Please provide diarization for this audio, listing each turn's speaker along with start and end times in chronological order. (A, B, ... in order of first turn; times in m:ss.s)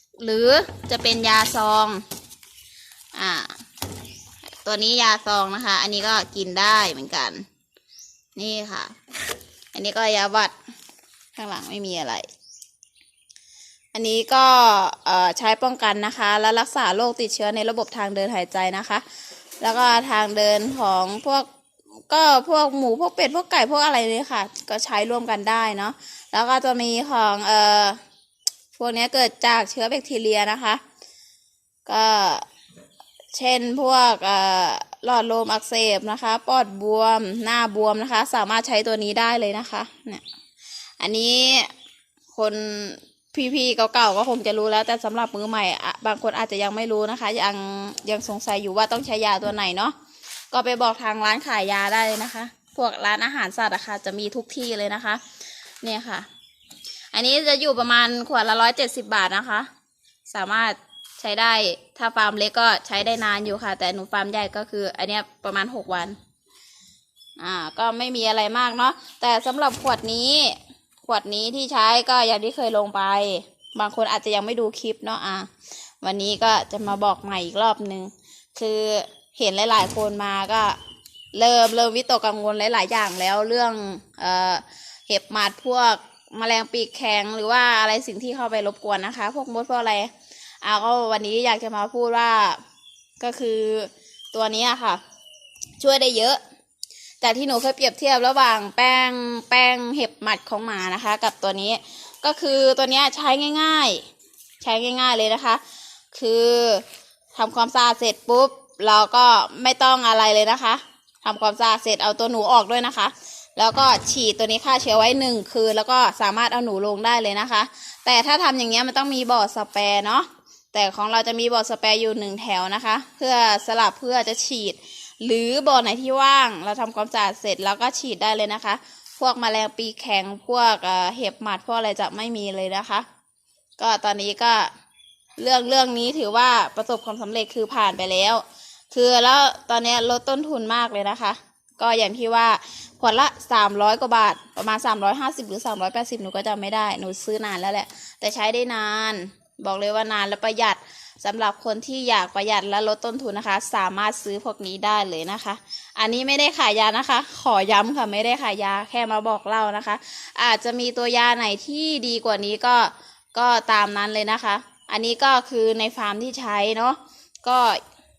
0:00.2-0:02.0 A
0:03.2-0:03.6 A
0:04.6-0:07.5 A
0:08.4-0:09.0 A
0:09.7-0:10.5 A
0:11.4-0:12.3 A
0:13.9-0:19.0 A
0:19.6-0:21.5 A
0:22.1-0:28.0 A
0:28.7-0:30.8 A
0:31.9-0:32.5 A
0:33.3-0:40.2 A
0:41.0-0:41.7 A
0:42.3-0:50.0 A
0:50.5-0:55.2 A
0:55.8-0:56.3 A
0:57.1-0:59.7 A
1:00.3-1:06.2 A
1:07.4-1:15.5 A
1:16.0-1:20.8 A
1:21.3-1:32.6 A
1:33.2-1:35.0 A
1:35.8-1:36.4 A
1:37.2-1:44.0 A
1:44.6-1:45.6 A
1:46.1-1:46.8 A
1:47.4-2:13.1 A
2:13.8-2:14.7 A
2:15.4-2:47.8 A